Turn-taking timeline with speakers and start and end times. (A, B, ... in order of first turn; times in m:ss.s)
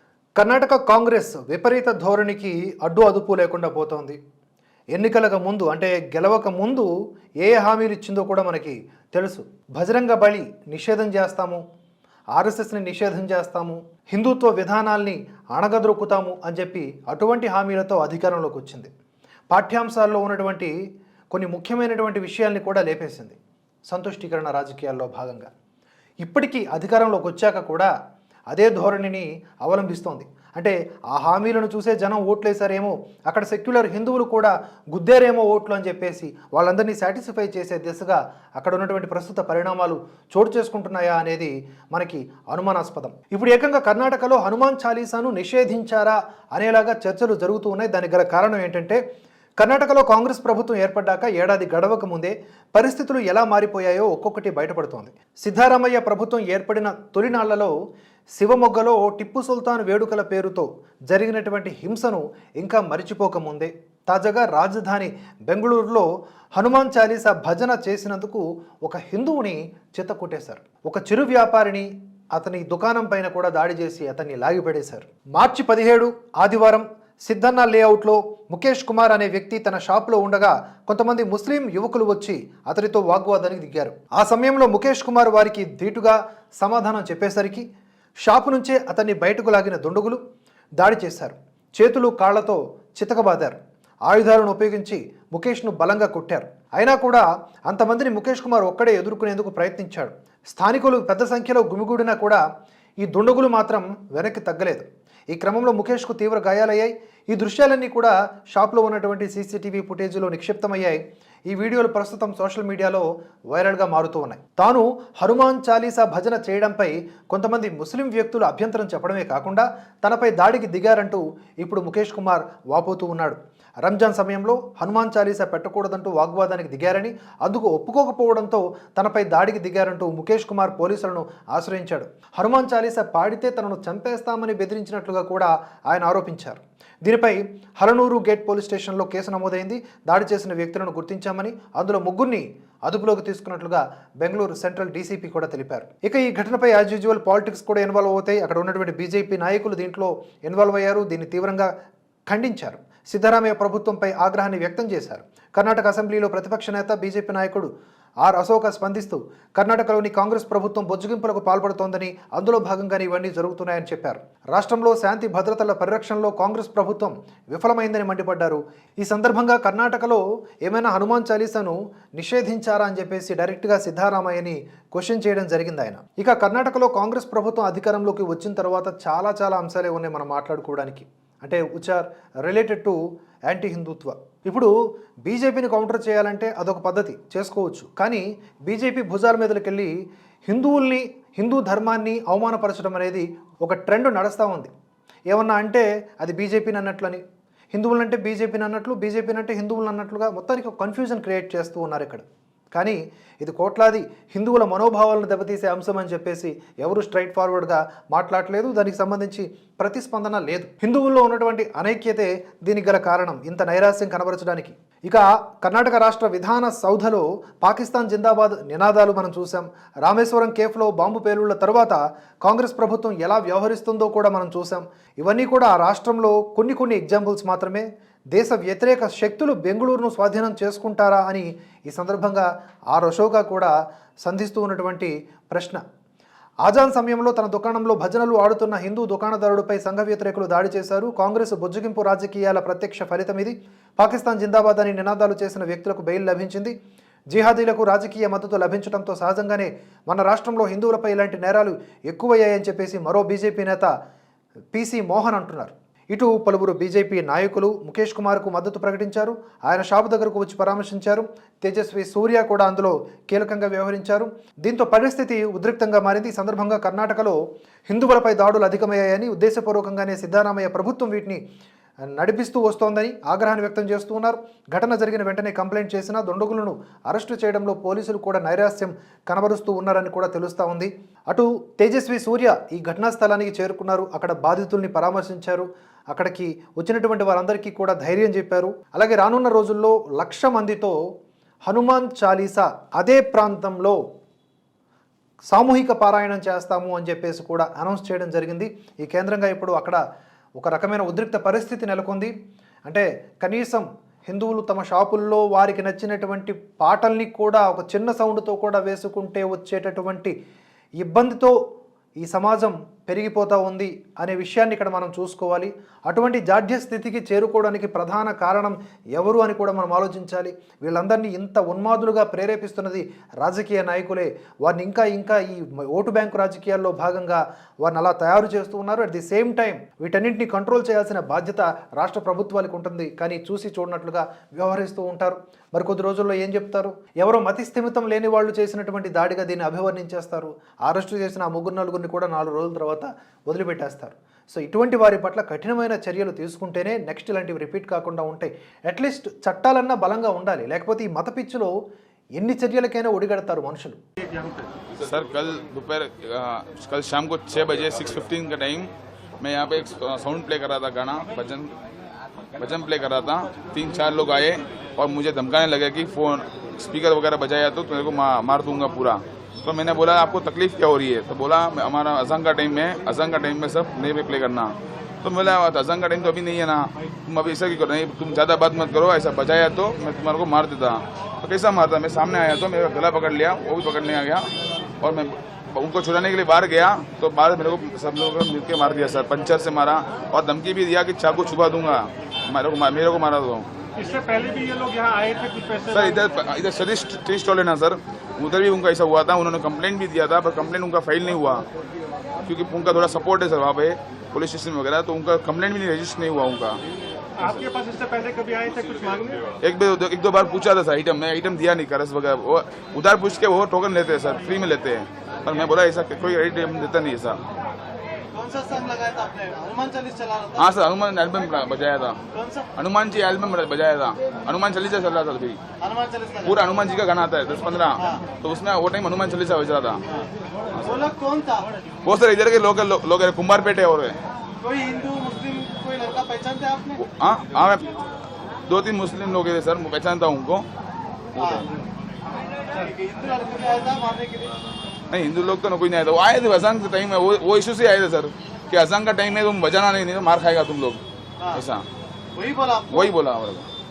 0:00.4-0:04.2 A
0:04.9-0:06.9 A
0:07.4-0:11.6 A
0:12.3-0:18.9 A
0:19.5-0:20.7 A
0:21.3-0:23.4 A
0:23.9-0:25.5 A
0:26.2-0:27.9 A
0:28.5-0:49.0 A
0:49.6-0:57.7 A
0:58.4-1:27.6 A
1:28.2-1:30.2 A
1:30.8-1:42.4 A
1:43.0-2:31.7 A
2:32.3-2:37.7 A
2:38.2-3:04.7 A
3:05.2-3:09.9 A
3:10.5-3:14.7 A
3:15.3-3:17.2 A
3:17.7-3:53.7 A
3:54.2-3:55.8 A
3:56.6-4:06.7 A
4:07.3-4:13.9 A
4:14.7-4:27.4 A
4:27.9-4:31.4 A
4:32.1-4:51.0 A
4:51.7-4:54.0 A
4:55.5-5:00.0 A
5:00.6-5:02.3 A
5:02.9-5:10.3 A
5:11.0-5:11.5 A
5:12.2-5:51.7 A
5:52.4-5:54.0 A
5:54.2-5:54.7 B
5:55.0-5:58.9 C
5:59.4-6:01.7 C
6:02.6-6:24.4 C
6:25.0-6:33.7 C
6:34.0-6:36.1 B
6:35.9-6:41.6 C
6:42.4-6:46.8 C
6:47.4-6:49.5 B
6:49.6-6:57.4 C
6:58.3-7:00.7 D
7:00.6-7:02.2 C
7:02.3-7:02.7 D
7:02.7-7:05.6 C
7:05.8-7:06.6 D
7:06.4-7:10.0 C
7:10.7-7:11.1 C
7:10.8-7:11.7 D
7:12.0-7:14.1 C
7:14.6-7:17.0 D
7:17.0-7:17.9 C
7:18.7-7:20.6 C
7:21.3-7:21.7 C
7:21.4-7:21.7 D
7:22.7-7:24.5 D
7:25.1-7:31.0 C
7:31.5-7:31.8 C
7:32.3-7:33.1 D
7:32.9-7:33.7 C